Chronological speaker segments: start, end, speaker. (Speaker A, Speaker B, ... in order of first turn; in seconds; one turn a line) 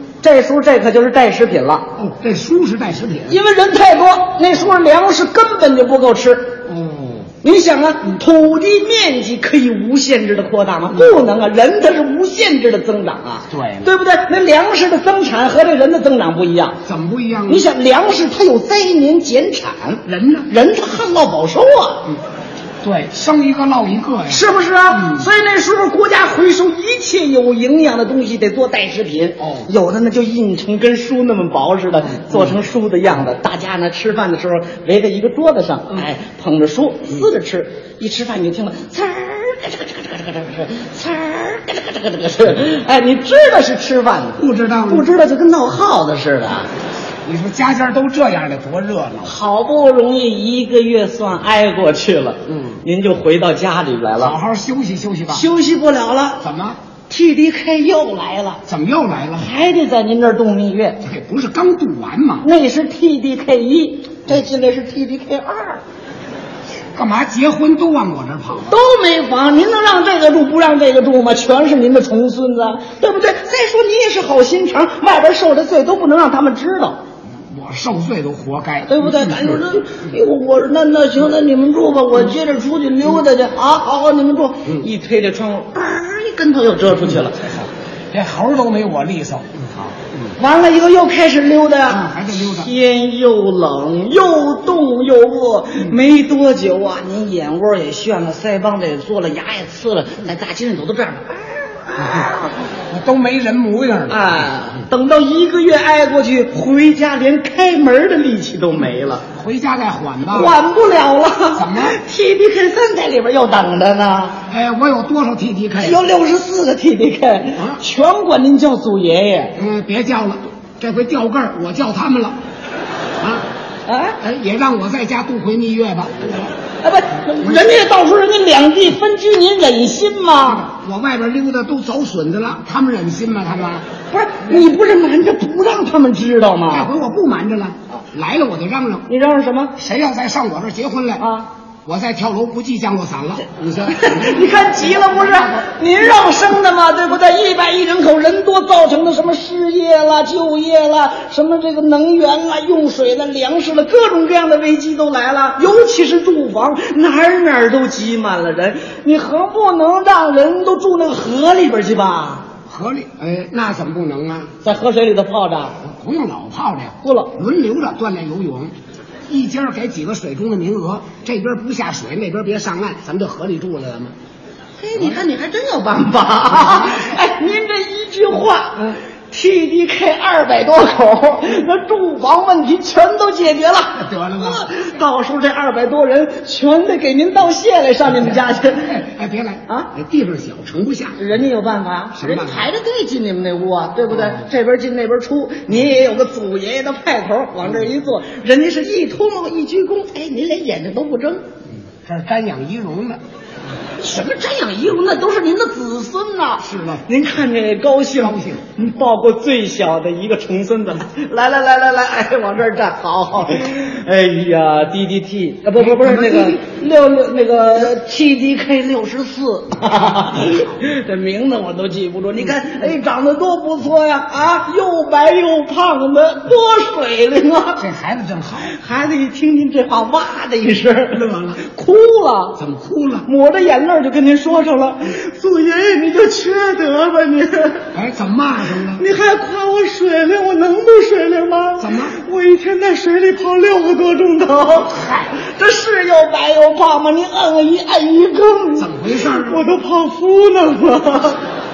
Speaker A: 0.2-1.9
Speaker B: 2.0-3.4
Speaker A: 3.3-6.6
Speaker B: 6.7-7.3
Speaker A: 7.4-16.8
Speaker B: 13.5-13.9
Speaker B: 16.9-17.7
Speaker A: 17.5-22.1
Speaker B: 20.1-20.5
Speaker B: 22.8-25.3
Speaker A: 24.3-46.7
Speaker B: 29.4-29.7
Speaker B: 32.0-32.6
Speaker B: 44.4-45.1
Speaker B: 47.2-49.4
Speaker A: 49.2-54.4
Speaker B: 52.5-52.8
Speaker B: 54.2-55.5
Speaker A: 55.3-56.4
Speaker B: 56.4-56.8
Speaker A: 57.1-58.6
Speaker B: 58.6-59.5
Speaker A: 59.4-61.0
Speaker B: 61.0-62.5
Speaker A: 62.4-65.8
Speaker B: 67.0-68.8
Speaker A: 68.7-77.0
Speaker B: 77.5-79.8
Speaker A: 78.9-87.4
Speaker B: 87.0-90.3
Speaker A: 90.4-102.5
Speaker B: 91.9-92.7
Speaker B: 102.0-102.3
Speaker B: 102.9-104.5
Speaker A: 104.1-109.3
Speaker B: 109.3-110.6
Speaker A: 110.3-114.4
Speaker B: 111.5-112.0
Speaker B: 114.5-116.0
Speaker A: 115.8-119.6
Speaker B: 117.5-117.8
Speaker B: 119.6-122.4
Speaker B: 123.2-123.5
Speaker A: 123.9-124.2
Speaker B: 124.2-126.5
Speaker A: 126.8-130.7
Speaker B: 127.4-127.8
Speaker B: 130.4-133.9
Speaker A: 134.1-136.9
Speaker B: 136.7-139.1
Speaker A: 139.1-139.8
Speaker B: 139.8-141.3
Speaker A: 141.2-141.5
Speaker B: 141.8-145.7
Speaker A: 143.9-162.5
Speaker B: 162.7-164.5
Speaker A: 164.6-165.8
Speaker B: 165.8-168.8
Speaker A: 167.0-167.3
Speaker B: 169.3-174.2
Speaker A: 174.8-188.9
Speaker B: 174.9-175.2
Speaker B: 176.5-177.2
Speaker B: 184.0-184.9
Speaker B: 188.1-191.2
Speaker A: 191.2-201.4
Speaker B: 192.2-192.7
Speaker B: 194.1-194.4
Speaker B: 202.1-203.2
Speaker A: 204.0-227.8
Speaker B: 206.6-207.1
Speaker B: 208.1-208.6
Speaker B: 215.8-216.6
Speaker B: 220.3-220.7
Speaker B: 227.8-228.8
Speaker A: 228.7-232.6
Speaker B: 231.1-231.6
Speaker B: 232.6-233.3
Speaker A: 233.3-237.9
Speaker B: 237.9-239.0
Speaker A: 239.0-251.4
Speaker B: 241.8-242.2
Speaker B: 244.9-245.3
Speaker B: 248.8-249.6